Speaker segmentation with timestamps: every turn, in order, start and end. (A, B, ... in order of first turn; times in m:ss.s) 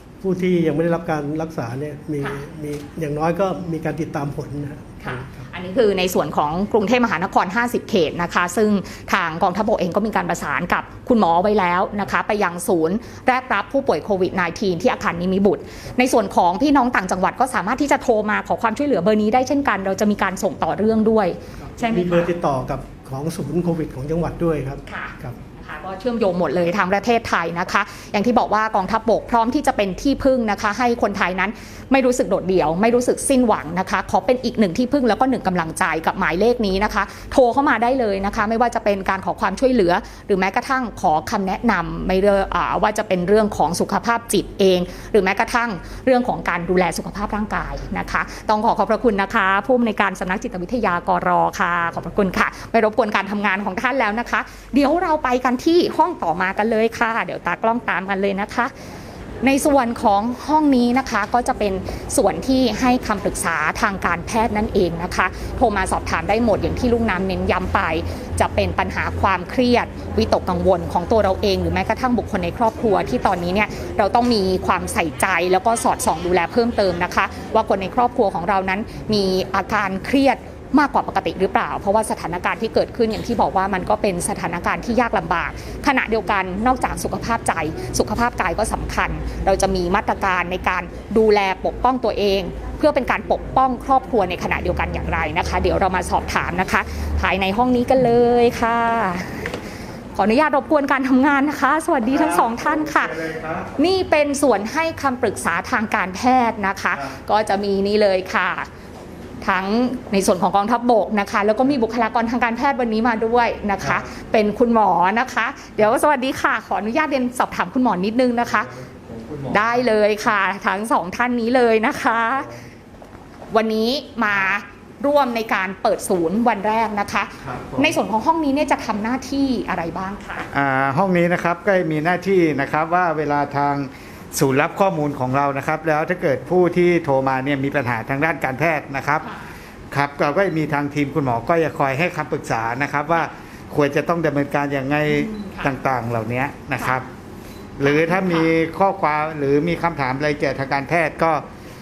0:00.2-0:05.4 A
0:05.0-0:22.3 B
0:21.7-0:25.4 A
0:24.9-0:58.7 B
0:59.4-1:39.4 B
1:40.2-1:48.7 B
1:43.2-1:43.6 C
1:49.4-1:58.7 B
1:59.2-1:59.5 C
1:59.5-2:02.5 B
2:03.5-2:10.5 B
2:07.4-2:08.0 C
2:10.5-2:19.3 C
2:19.9-2:27.1 C
2:25.3-2:25.7 B
2:27.8-2:31.4 C
2:27.8-2:28.5 B